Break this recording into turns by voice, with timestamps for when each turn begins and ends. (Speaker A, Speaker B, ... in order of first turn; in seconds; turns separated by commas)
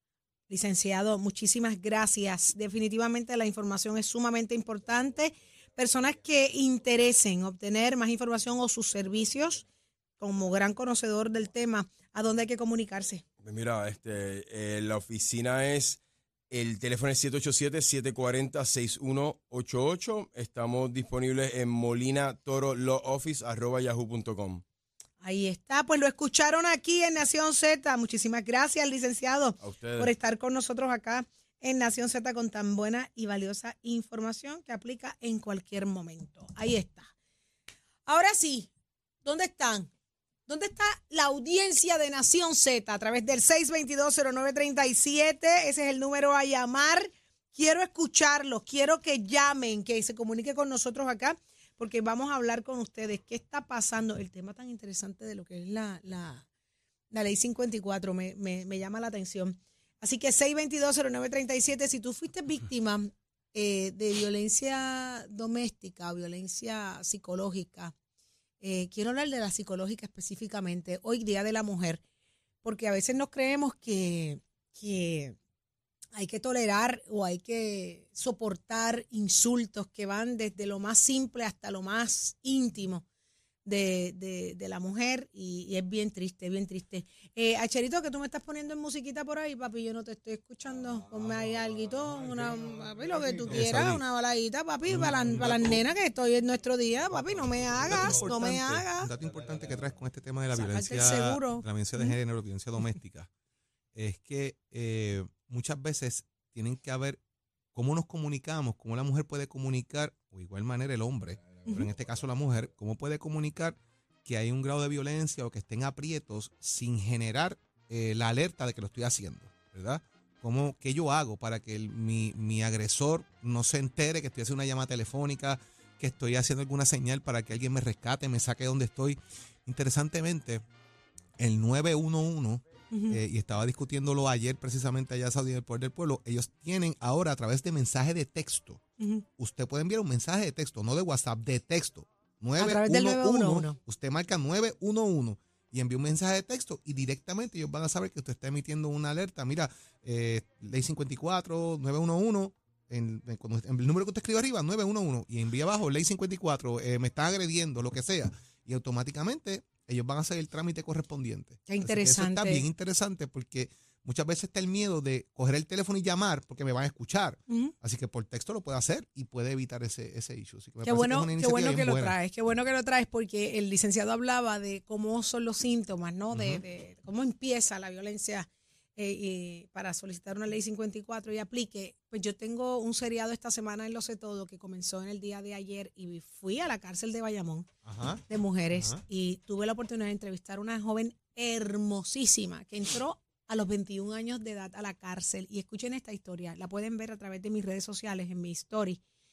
Speaker A: 0.5-9.6, Speaker A: 10.2-13.2, Speaker B: 13.4-24.6, Speaker A: 25.2-37.1, Speaker B: 29.6-30.1, Speaker A: 38.0-38.7, Speaker A: 39.2-39.9, Speaker A: 40.5-56.4, Speaker A: 57.1-67.9, Speaker A: 68.6-72.0, Speaker A: 72.6-75.3, Speaker A: 76.2-83.0, Speaker A: 83.6-99.1, Speaker C: 93.5-94.0, Speaker C: 94.9-95.8, Speaker C: 97.8-103.3, Speaker A: 100.5-102.2, Speaker C: 103.9-107.2, Speaker C: 107.7-130.6, Speaker C: 131.4-138.8, Speaker A: 132.9-133.2, Speaker C: 139.4-172.2, Speaker A: 142.6-143.7, Speaker A: 161.7-162.7, Speaker A: 170.8-187.7, Speaker C: 176.3-176.6, Speaker C: 187.8-188.2, Speaker A: 188.3-199.0, Speaker C: 188.7-189.0